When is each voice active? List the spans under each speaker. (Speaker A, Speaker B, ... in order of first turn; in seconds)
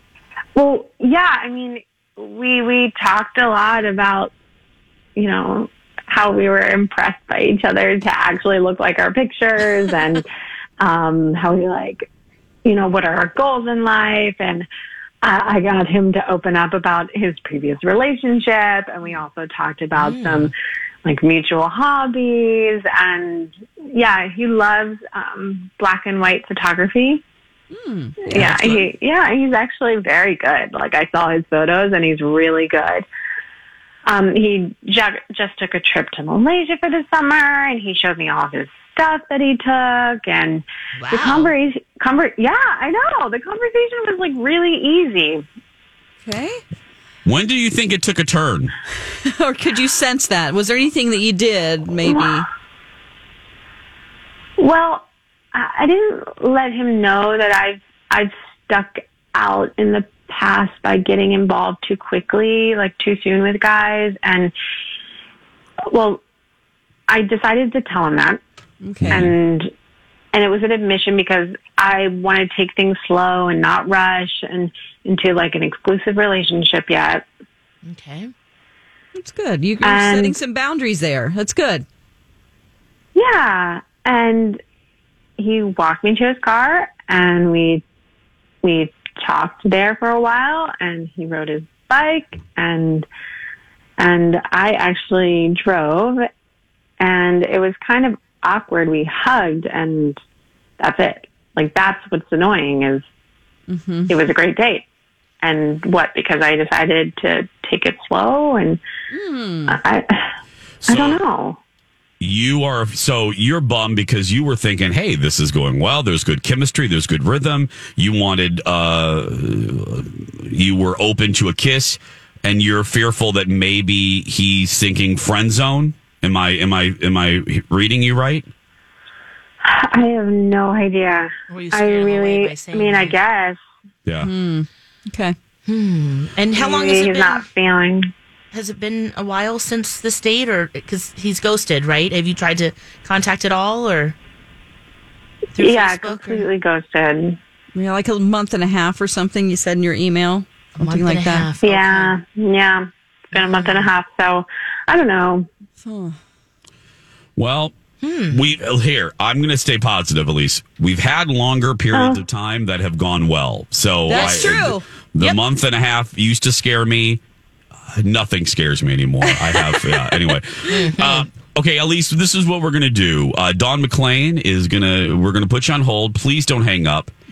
Speaker A: 0.6-4.3, 5.2-10.2, 10.8-12.1, 12.6-14.7, 15.2-20.5, 21.0-27.2, 28.2-33.0, 34.0-45.4, 52.0-52.4, 54.6-64.5, 65.9-66.2, 67.1-68.4, 69.1-69.7, 70.3-77.2, 79.8-80.3, 83.1-84.6, 85.4-87.8, 88.6-93.1, 94.0-96.2, 97.0-100.2, 100.8-103.0, 104.1-104.8, 105.4-108.8, 109.7-110.3, 110.8-111.6, 129.6-133.6, 136.5-138.0, 145.6-147.4, 151.6-155.5, 161.9-162.2
Speaker B: 19.9-20.5, 41.0-41.5, 77.8-78.3, 131.5-133.2, 135.7-137.4, 138.5-144.1, 145.5-146.5, 150.8-152.2, 153.3-153.9, 158.0-158.4, 164.1-164.6, 170.7-171.3
Speaker C: 27.7-28.5, 46.2-46.6, 49.3-52.5, 68.8-69.3, 79.2-81.8, 103.7-104.2, 109.1-109.8, 134.2-135.3, 147.7-151.5, 155.8-156.2, 164.1-165.4, 169.2-170.3
Speaker D: 47.2-48.7, 69.0-69.3, 110.8-111.2, 112.2-128.5, 157.3-157.7, 158.3-167.2, 167.9-177.1